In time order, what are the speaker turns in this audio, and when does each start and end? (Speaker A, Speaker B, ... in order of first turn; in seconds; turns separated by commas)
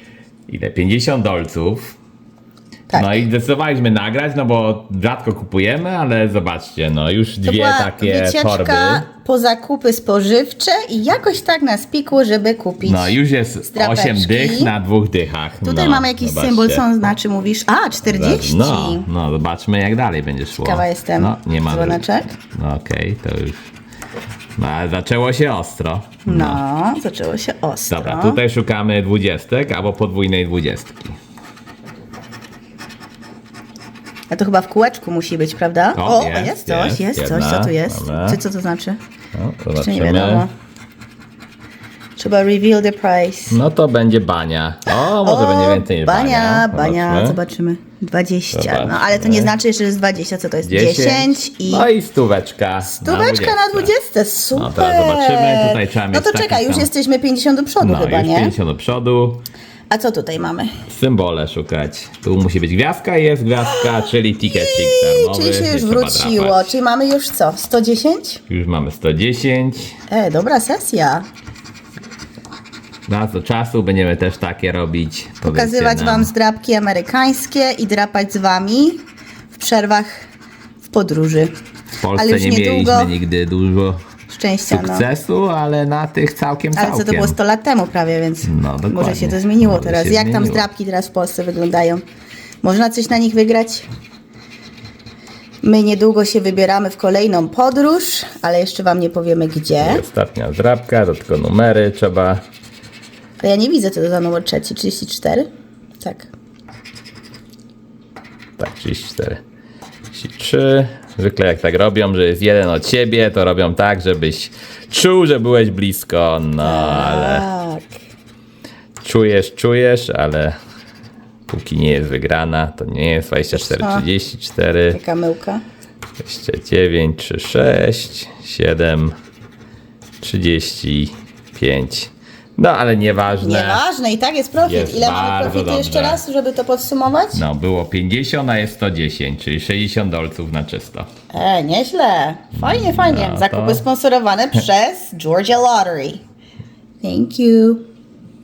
Speaker A: 0.5-2.0, Speaker B: 2.9-3.2, Speaker A: 2.9-9.0, Speaker B: 7.4-13.2, Speaker A: 12.8-17.1, Speaker B: 13.7-14.7, Speaker B: 15.6-19.1, Speaker A: 18.0-23.6, Speaker B: 20.6-22.4, Speaker A: 24.6-26.6, Speaker B: 26.3-28.4, Speaker A: 27.9-31.2, Speaker B: 34.3-39.0, Speaker A: 36.0-38.4, Speaker A: 39.3-40.5, Speaker B: 39.8-40.5, Speaker B: 42.2-43.6, Speaker A: 43.5-47.4, Speaker B: 44.9-51.9, Speaker A: 48.5-49.5, Speaker A: 50.6-53.9, Speaker B: 52.9-58.5, Speaker A: 54.5-56.9, Speaker A: 57.8-59.4, Speaker B: 59.9-60.7, Speaker A: 60.9-66.8, Speaker B: 64.4-68.4, Speaker A: 68.5-70.0, Speaker B: 70.1-71.3, Speaker A: 73.1-76.3, Speaker B: 75.4-80.2, Speaker B: 80.9-81.5, Speaker A: 82.0-84.0, Speaker B: 82.2-83.1, Speaker B: 84.3-85.0, Speaker A: 84.7-87.4, Speaker B: 86.8-92.0, Speaker A: 88.4-90.7, Speaker B: 92.6-93.9, Speaker B: 95.6-100.0, Speaker A: 99.8-102.4, Speaker B: 103.4-105.5, Speaker B: 106.0-106.3, Speaker A: 108.6-109.4, Speaker A: 110.1-117.5, Speaker B: 116.6-118.0, Speaker A: 119.0-120.6, Speaker A: 121.5-125.0, Speaker B: 123.5-124.0, Speaker B: 124.9-125.6, Speaker A: 126.2-129.2, Speaker A: 130.2-133.8, Speaker B: 133.4-137.4, Speaker A: 134.6-136.2, Speaker A: 137.3-141.1, Speaker B: 141.3-146.2, Speaker A: 142.6-143.8, Speaker B: 147.0-147.8